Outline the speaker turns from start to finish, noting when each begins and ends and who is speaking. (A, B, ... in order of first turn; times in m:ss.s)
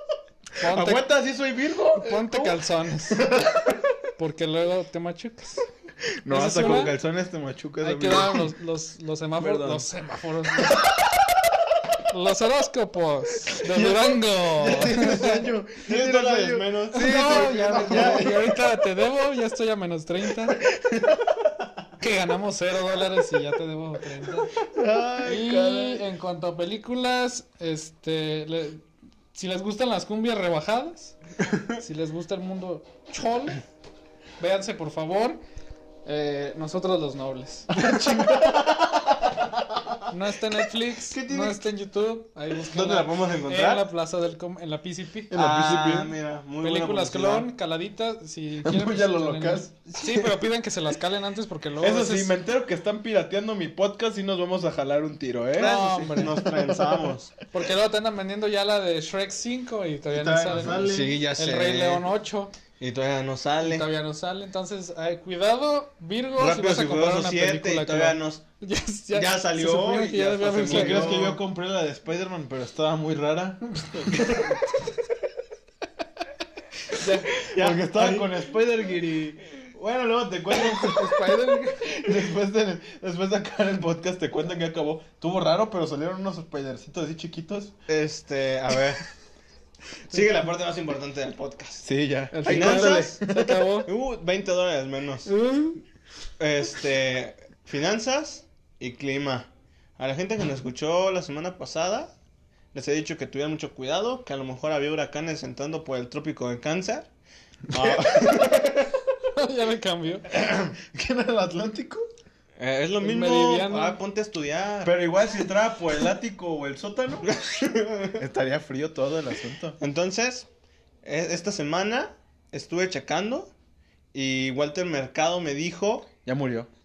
0:00.6-0:01.1 A
0:00.6-0:02.6 B
0:02.0-0:03.2 A
0:03.1-0:03.7 B
0:04.2-0:05.6 A
0:06.2-0:08.5 B
0:06.3-0:06.9 A
0:07.8-0:10.9 A
0:09.4-0:09.8 B
0:12.1-0:15.5 A
0:13.6-0:18.6 B
0:15.8-0:18.3 C
0:16.9-0:20.6 A
0:22.0-0:24.5 A
0:24.6-0:26.0 B
0:25.2-0:33.6 A
0:34.4-0:35.4 A
0:36.0-0:38.5 A
0:37.7-0:39.5 B
0:40.1-0:45.3 A
0:41.1-0:41.6 C
0:42.7-0:43.9 C
0:45.3-0:46.1 B
0:45.3-0:47.5 C
0:46.6-0:52.3 A
0:48.6-0:49.7 B
0:49.9-0:50.4 C
0:51.8-0:57.1 B
0:55.6-0:57.3 C
0:55.6-0:56.4 A
0:57.5-1:02.5 A
1:00.1-1:01.2 B
1:00.5-1:02.0 C
1:02.8-1:03.9 C
1:03.6-1:11.2 A
1:06.4-1:08.4 C
1:09.1-1:11.4 C
1:10.6-1:14.6 B
1:13.8-1:14.3 A
1:16.9-1:17.4 A
1:17.4-1:18.3 C
1:17.5-1:27.7 B
1:20.8-1:22.0 A
1:27.9-1:29.0 C
1:30.1-1:31.8 C
1:31.8-1:33.6 B
1:32.3-1:33.9 A
1:32.4-1:33.2 C
1:33.8-1:35.3 C
1:35.2-1:35.8 A
1:36.4-1:42.1 C
1:42.7-1:47.1 C
1:47.7-1:48.9 B
1:47.7-1:48.6 C
1:49.4-1:50.3 A
1:50.3-1:52.0 B
1:52.6-1:54.9 C
1:53.0-1:54.0 A
1:54.8-1:57.3 B
1:57.2-1:58.2 C
1:58.2-1:59.8 B
1:59.8-2:00.5 C
2:01.0-2:03.5 C
2:04.1-2:06.1 C
2:06.2-2:06.7 B